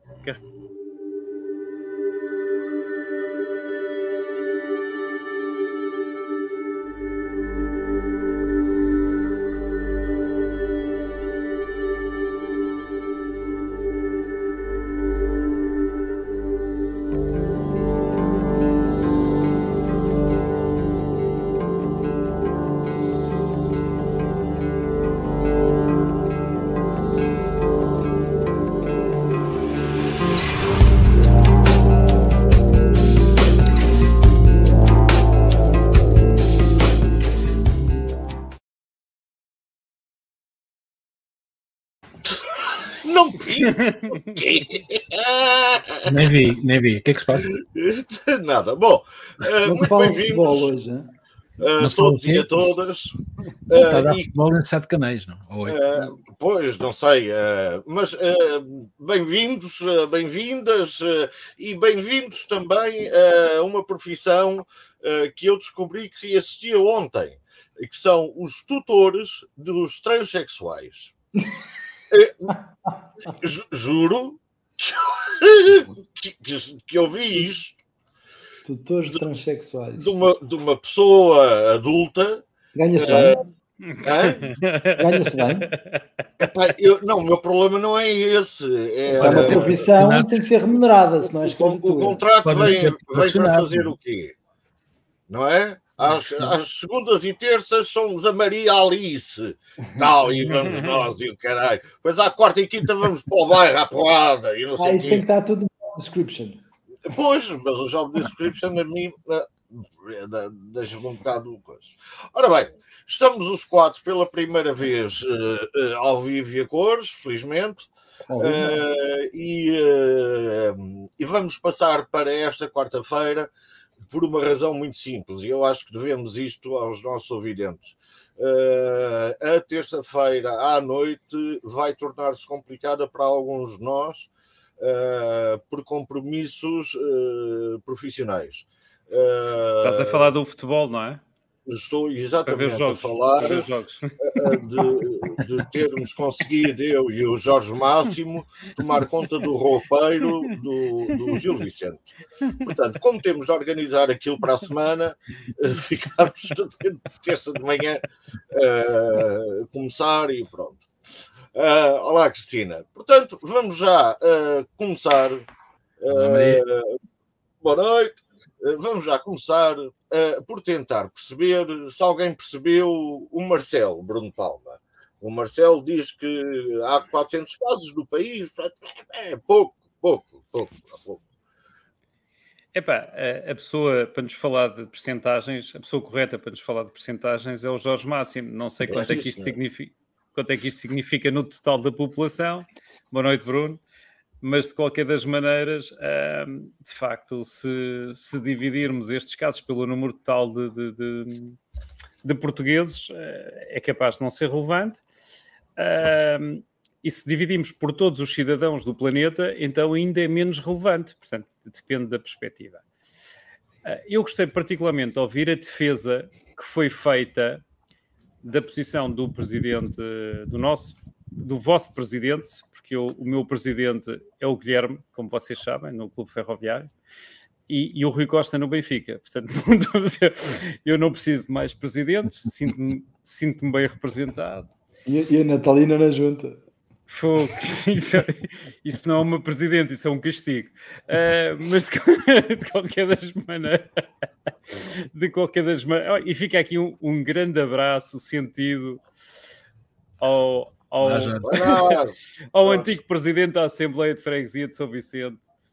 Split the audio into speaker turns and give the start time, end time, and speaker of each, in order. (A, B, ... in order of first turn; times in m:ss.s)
0:43.0-0:46.1 A
0:46.1-0:47.5 B
0:47.4-0:50.7 A
0:49.6-0:51.1 C
0:51.6-0:53.2 A
0:51.8-0:52.5 B
0:53.7-0:54.3 A
0:53.7-0:56.1 B
0:55.7-1:11.1 A
1:12.1-1:12.6 A
1:13.3-1:17.8 A
1:18.6-1:20.1 C
1:20.0-1:22.4 A
1:22.8-1:23.4 C
1:23.0-1:23.4 A
1:23.9-1:26.0 D
1:24.0-1:24.5 A
1:25.0-1:25.7 C
1:26.4-1:29.8 A
1:29.1-1:30.4 B
1:29.1-1:32.2 C
1:31.2-1:34.4 A
1:32.4-1:33.9 B
1:35.3-1:45.2 A
1:40.6-1:41.0 D
1:44.8-1:46.6 C
1:47.1-1:57.9 A
1:58.3-1:58.8 C
1:58.4-2:03.5 A
2:04.1-2:20.3 A
2:19.8-2:21.2 D
2:21.7-2:23.7 A
2:22.5-2:24.8 D
2:24.2-2:40.9 A
2:41.5-2:45.5 A
2:46.0-2:47.0 A
2:46.1-2:46.6 B
2:47.6-3:01.2 A
3:02.7-3:13.8 D
3:08.9-3:09.6 A
3:14.4-3:21.6 D
3:22.2-3:25.0 D
3:25.8-3:32.8 D
3:33.8-3:37.6 D
3:38.4-3:46.9 D
3:47.7-3:54.7 D
3:55.0-3:56.6 C
3:57.1-4:04.0 D
4:04.8-4:09.0 D
4:10.2-4:12.0 D
4:11.0-4:11.5 B
4:11.4-4:13.0 A
4:12.5-4:15.4 D